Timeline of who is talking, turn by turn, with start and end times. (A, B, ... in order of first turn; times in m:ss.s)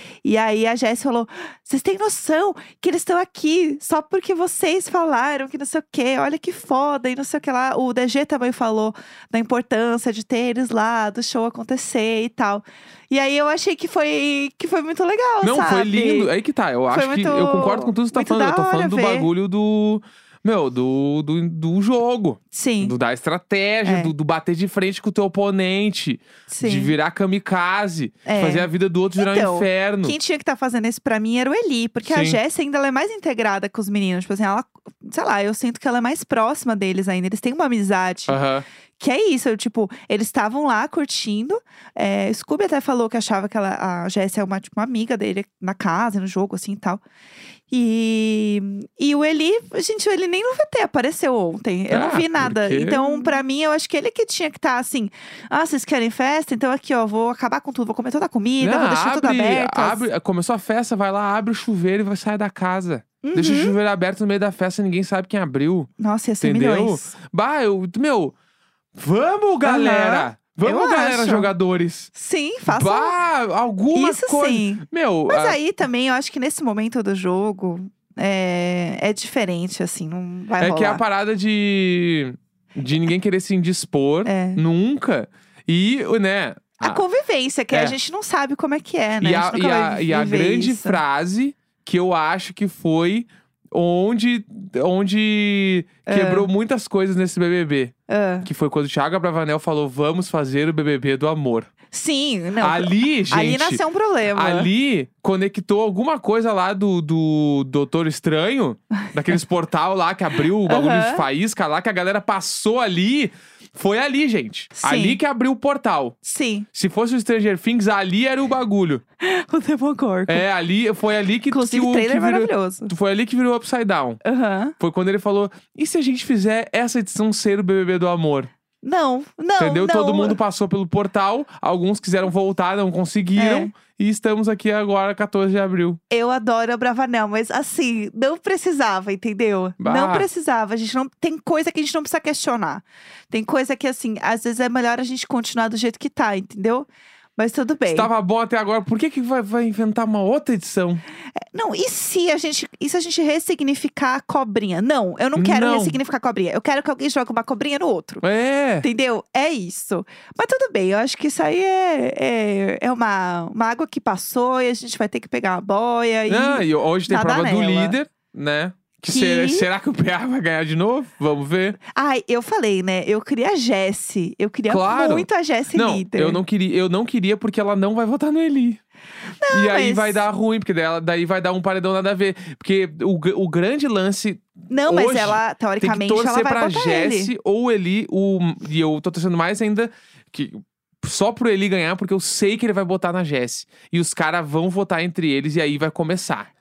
0:00.2-0:16.3 A
0:15.4-0:30.2 B
0:16.9-0:19.3 A
0:22.5-0:22.9 A
0:23.8-0:24.1 A
0:26.5-0:26.9 A
0:28.2-0:38.4 A
0:32.0-0:32.4 B
0:38.3-0:38.6 B
0:39.0-0:47.0 A
0:47.7-1:00.0 A
0:51.9-0:53.3 B
0:58.6-1:05.9 B
1:03.2-1:03.8 A
1:06.0-1:07.1 A
1:06.4-1:08.3 B
1:08.9-1:12.1 B
1:09.6-1:11.5 A
1:12.1-1:13.1 A
1:12.6-1:15.6 B
1:13.9-1:21.0 A
1:20.6-1:27.0 B
1:24.2-1:24.6 A
1:26.8-1:31.0 A
1:27.7-1:28.0 B
1:29.2-1:41.7 B
1:36.0-1:36.5 A
1:38.1-1:38.5 A
1:41.9-1:44.7 A
1:42.6-1:43.8 B
1:44.3-1:56.2 B
1:50.6-1:51.2 A
1:54.8-1:55.2 A
1:56.2-1:56.7 A
1:56.7-1:59.0 B
1:59.2-2:00.4 A
2:00.3-2:04.2 B
2:01.5-2:02.9 A
2:04.2-2:04.7 A
2:04.8-2:08.5 B
2:08.8-2:10.4 A
2:09.6-2:16.0 B
2:13.4-2:13.7 A
2:16.1-2:28.1 A
2:19.8-2:20.3 B
2:27.9-2:31.0 B
2:31.5-2:38.2 A
2:35.4-2:36.0 B
2:38.2-2:38.8 B
2:38.8-2:48.0 A
2:46.3-2:51.8 B
2:49.1-2:49.7 A
2:51.9-2:56.4 A
2:54.7-2:58.8 B
2:59.4-3:00.2 A
2:59.5-3:16.5 B
3:04.7-3:07.3 A